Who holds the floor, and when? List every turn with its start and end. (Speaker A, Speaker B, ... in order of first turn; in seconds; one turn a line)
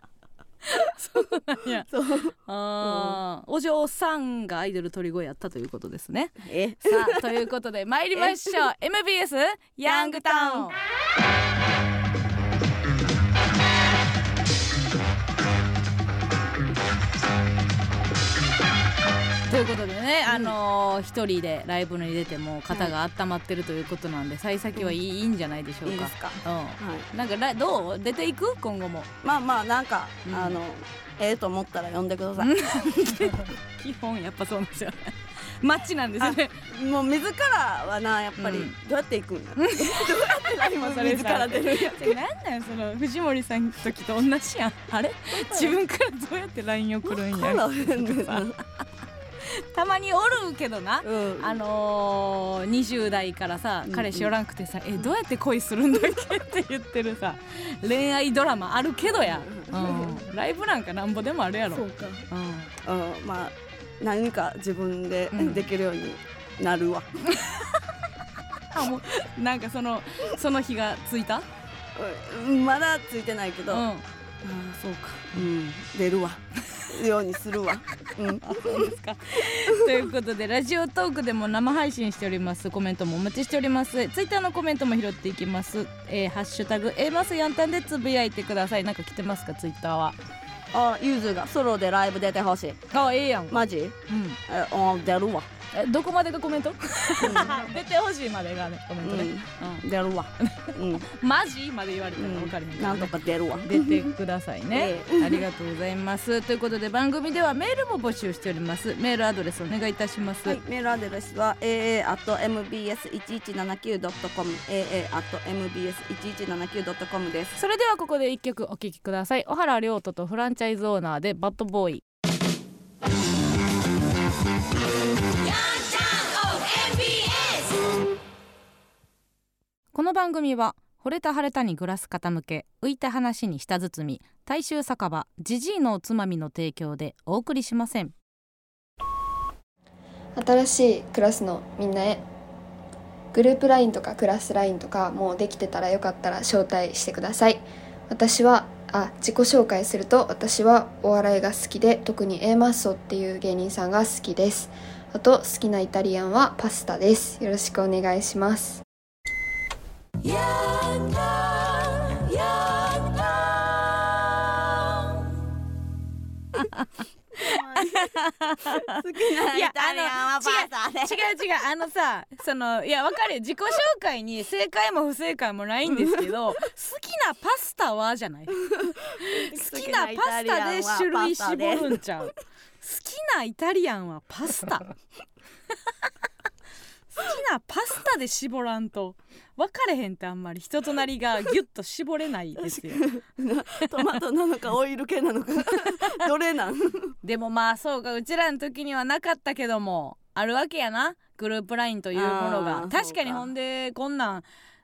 Speaker A: 0.7-10.8
Speaker B: 1.9-3.2
Speaker B: 6.4-7.3
Speaker B: 8.2-8.6
Speaker B: 9.8-10.7
Speaker A: 19.5-29.1
Speaker B: 20.3-20.5
Speaker B: 25.9-27.1
Speaker B: 29.2-32.6
Speaker A: 30.3-30.6
Speaker A: 32.4-36.6
Speaker B: 36.2-42.2
Speaker A: 38.4-38.8
Speaker A: 39.6-48.5
Speaker B: 45.3-45.8
Speaker B: 47.1-48.6
Speaker A: 49.4-62.7
Speaker B: 51.0-51.6
Speaker B: 53.9-54.3
Speaker B: 59.2-60.2
Speaker B: 61.7-62.2
Speaker B: 62.8-67.1
Speaker A: 65.3-65.7
Speaker A: 67.3-67.7
Speaker A: 68.7-71.5
Speaker B: 72.0-73.9
Speaker A: 73.7-74.0
Speaker B: 74.4-78.9
Speaker A: 78.4-90.2
Speaker B: 90.7-92.8
Speaker A: 92.9-94.4
Speaker B: 93.5-94.0
Speaker B: 94.5-95.5
Speaker A: 95.7-99.8
Speaker B: 97.2-97.7
Speaker B: 99.0-101.1
Speaker A: 100.4-110.6
Speaker B: 102.2-104.1
Speaker B: 104.7-105.5
Speaker B: 110.5-117.6
Speaker A: 117.6-122.0
Speaker A: 125.7-127.7
Speaker A: 129.9-138.1
Speaker C: 140.4-142.2
Speaker C: 143.3-158.8
Speaker B: 160.3-163.6
Speaker A: 161.7-162.2
Speaker A: 166.6-166.8
Speaker B: 167.3-171.2
Speaker A: 167.6-184.9
Speaker B: 178.7-182.0
Speaker A: 187.1-193.0
Speaker B: 192.6-197.2
Speaker A: 195.8-196.0
Speaker A: 197.2-204.4
Speaker B: 202.1-203.5